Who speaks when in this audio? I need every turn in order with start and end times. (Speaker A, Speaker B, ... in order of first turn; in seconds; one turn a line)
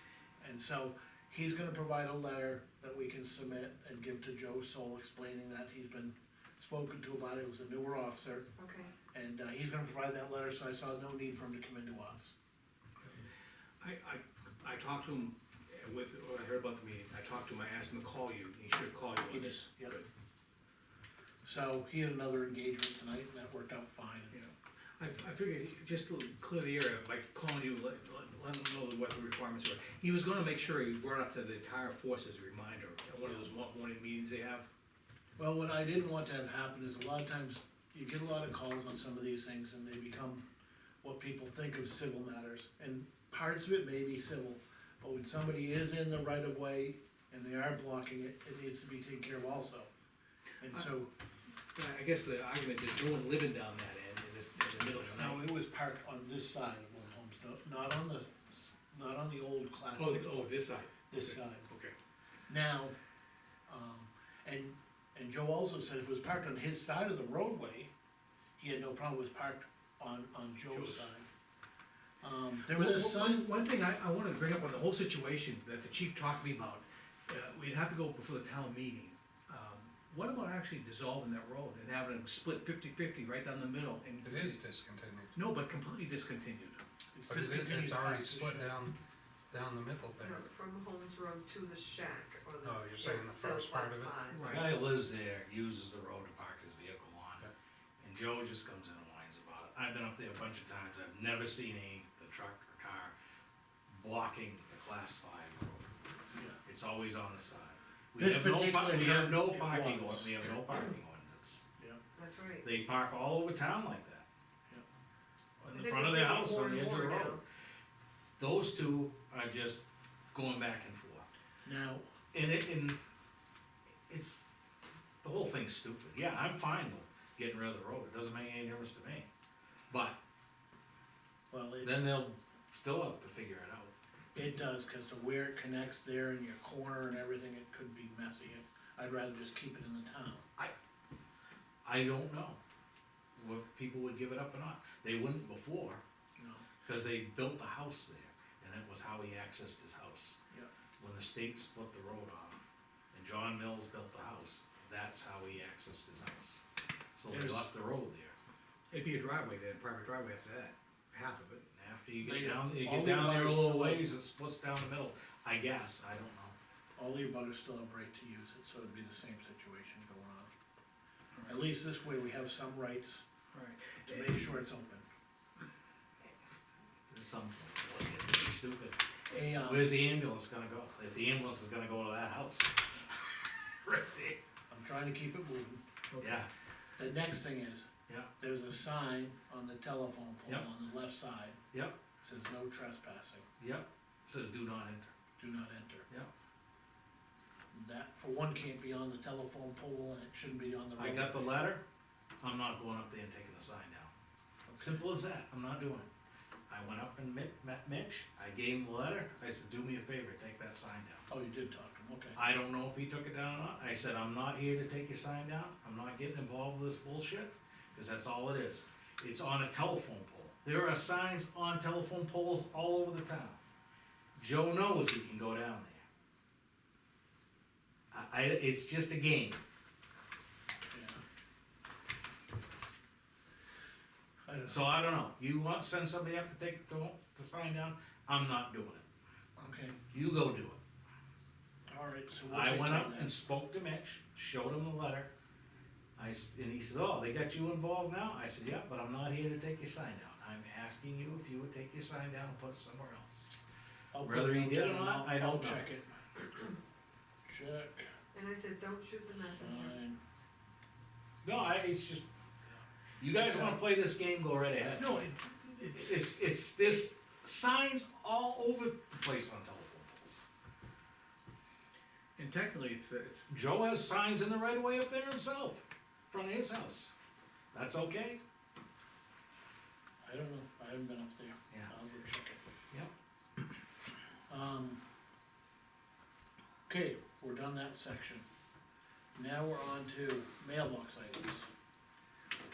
Speaker A: 0.4-8.5
Speaker B: 8.6-8.9
Speaker A: 9.1-12.3
Speaker C: 13.8-20.1
Speaker A: 19.3-19.9
Speaker A: 21.4-24.4
Speaker C: 24.3-34.7
Speaker A: 33.2-33.5
Speaker A: 35.4-40.5
Speaker A: 41.0-49.9
Speaker A: 50.6-51.1
Speaker C: 51.8-55.4
Speaker A: 55.1-60.4
Speaker C: 60.0-62.0
Speaker A: 61.1-61.7
Speaker A: 62.5-63.0
Speaker A: 63.7-67.9
Speaker A: 68.6-71.3
Speaker C: 70.7-71.1
Speaker A: 72.2-73.5
Speaker C: 72.7-84.6
Speaker D: 84.2-85.3
Speaker C: 85.3-86.8
Speaker A: 87.1-88.7
Speaker D: 87.3-89.0
Speaker D: 89.5-90.5
Speaker B: 90.2-94.5
Speaker D: 92.6-94.2
Speaker C: 94.3-94.7
Speaker E: 94.4-103.1
Speaker E: 103.9-105.9
Speaker E: 106.6-111.6
Speaker A: 108.2-110.4
Speaker B: 112.1-112.6
Speaker E: 112.6-114.2
Speaker E: 115.6-117.4
Speaker B: 115.7-117.4
Speaker E: 118.4-121.3
Speaker A: 121.6-122.0
Speaker E: 122.3-123.0
Speaker E: 124.1-124.4
Speaker E: 125.2-129.3
Speaker E: 129.9-130.2
Speaker A: 131.5-132.0
Speaker E: 131.8-133.9
Speaker A: 134.3-140.5
Speaker E: 141.8-142.6
Speaker E: 143.4-146.0
Speaker A: 146.4-146.7
Speaker E: 146.8-150.4
Speaker E: 151.0-152.6
Speaker E: 153.1-156.6
Speaker E: 157.2-158.3
Speaker A: 157.3-157.7
Speaker C: 158.9-161.7
Speaker E: 161.7-166.6
Speaker A: 162.2-164.0
Speaker A: 167.0-170.5
Speaker C: 171.3-171.6
Speaker A: 171.5-173.2
Speaker C: 173.5-174.4
Speaker A: 174.0-175.1
Speaker E: 177.1-179.0
Speaker A: 179.3-180.0
Speaker E: 179.6-184.4
Speaker A: 184.7-185.8
Speaker E: 186.2-186.5
Speaker A: 187.0-191.6
Speaker E: 191.7-192.0
Speaker A: 192.2-193.5
Speaker E: 193.6-195.1
Speaker A: 195.4-196.1
Speaker A: 197.7-201.5
Speaker E: 201.0-201.8
Speaker E: 202.4-204.1
Speaker A: 204.7-205.0
Speaker E: 204.8-206.1
Speaker E: 206.7-211.2
Speaker A: 211.3-212.4
Speaker E: 212.3-223.6
Speaker E: 224.4-226.1
Speaker E: 228.1-229.6
Speaker A: 230.9-231.2
Speaker A: 234.5-234.9
Speaker E: 234.7-239.0
Speaker A: 239.6-240.0
Speaker E: 240.1-240.8
Speaker A: 241.9-243.3
Speaker E: 242.5-245.3
Speaker E: 246.2-253.5
Speaker A: 254.1-256.1
Speaker E: 254.2-255.9
Speaker A: 257.5-258.1
Speaker B: 258.3-259.9
Speaker A: 259.6-260.2
Speaker E: 261.4-262.3
Speaker E: 263.2-265.1
Speaker A: 263.3-263.8
Speaker C: 264.9-266.3
Speaker E: 265.9-270.4
Speaker C: 272.4-273.5
Speaker E: 273.5-277.1
Speaker E: 277.7-278.4
Speaker A: 280.2-282.6
Speaker A: 284.5-285.0
Speaker A: 286.9-288.4
Speaker A: 289.3-291.7